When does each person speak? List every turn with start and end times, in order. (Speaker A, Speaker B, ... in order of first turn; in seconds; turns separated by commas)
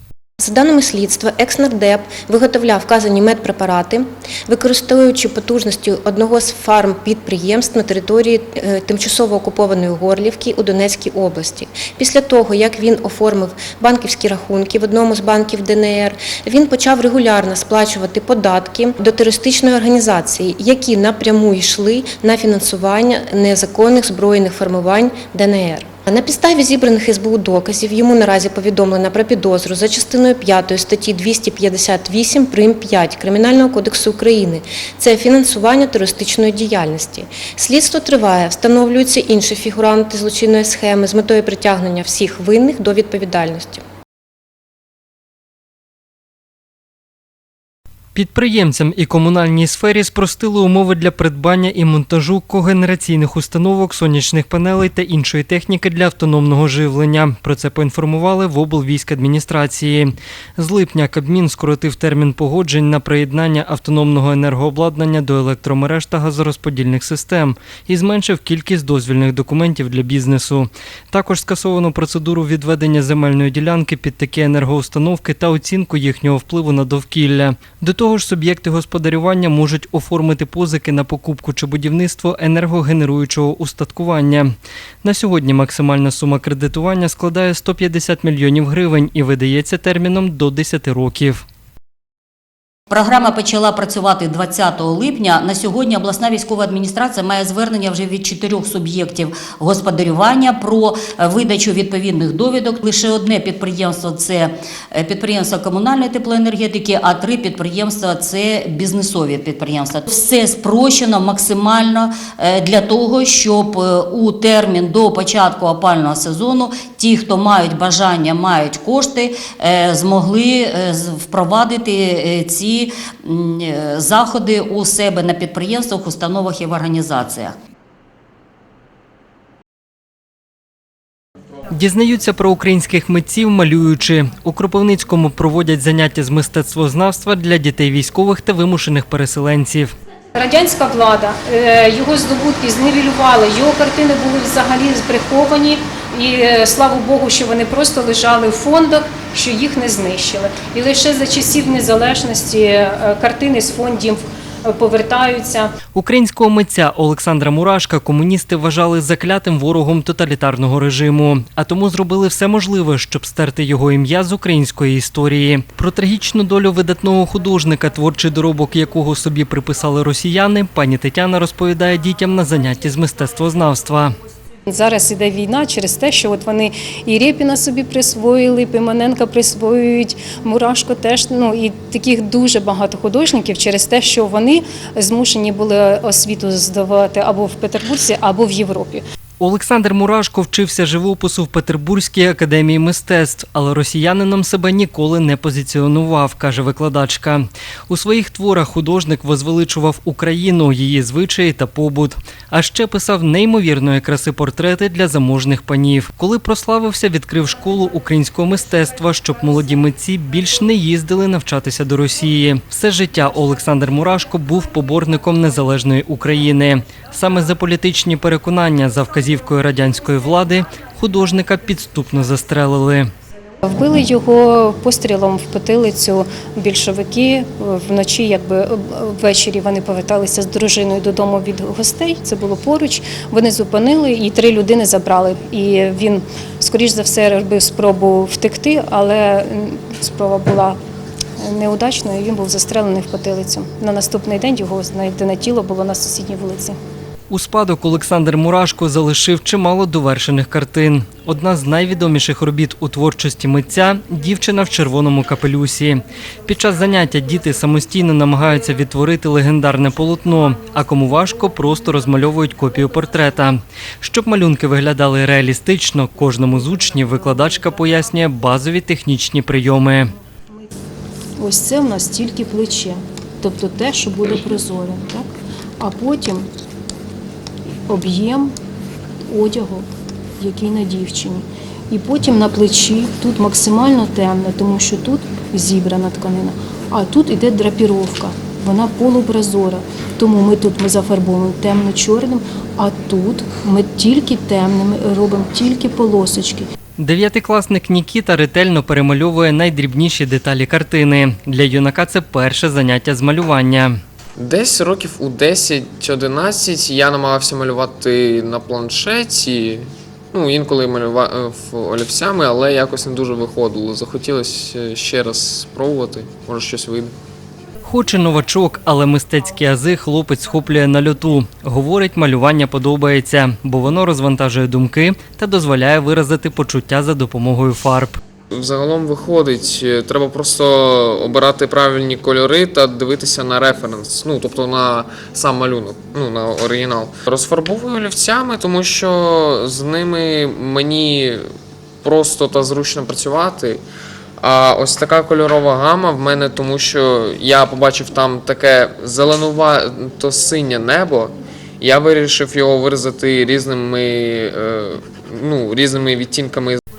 Speaker A: 0.4-43.8, Speaker B: 48.1-91.4, Speaker C: 92.9-127.5, Speaker B: 131.7-139.9, Speaker D: 140.3-155.7, Speaker B: 155.9-174.2, Speaker D: 174.7-189.0, Speaker B: 189.4-223.1, Speaker D: 223.6-240.8, Speaker D: 241.4-246.8, Speaker B: 247.3-270.1, Speaker D: 271.4-275.3, Speaker D: 275.8-276.5, Speaker D: 277.9-278.5, Speaker D: 279.3-279.9, Speaker D: 280.4-296.7, Speaker B: 297.0-304.0, Speaker E: 304.4-317.1, Speaker B: 317.8-328.2, Speaker E: 328.5-341.5, Speaker E: 342.0-343.8, Speaker E: 344.4-356.8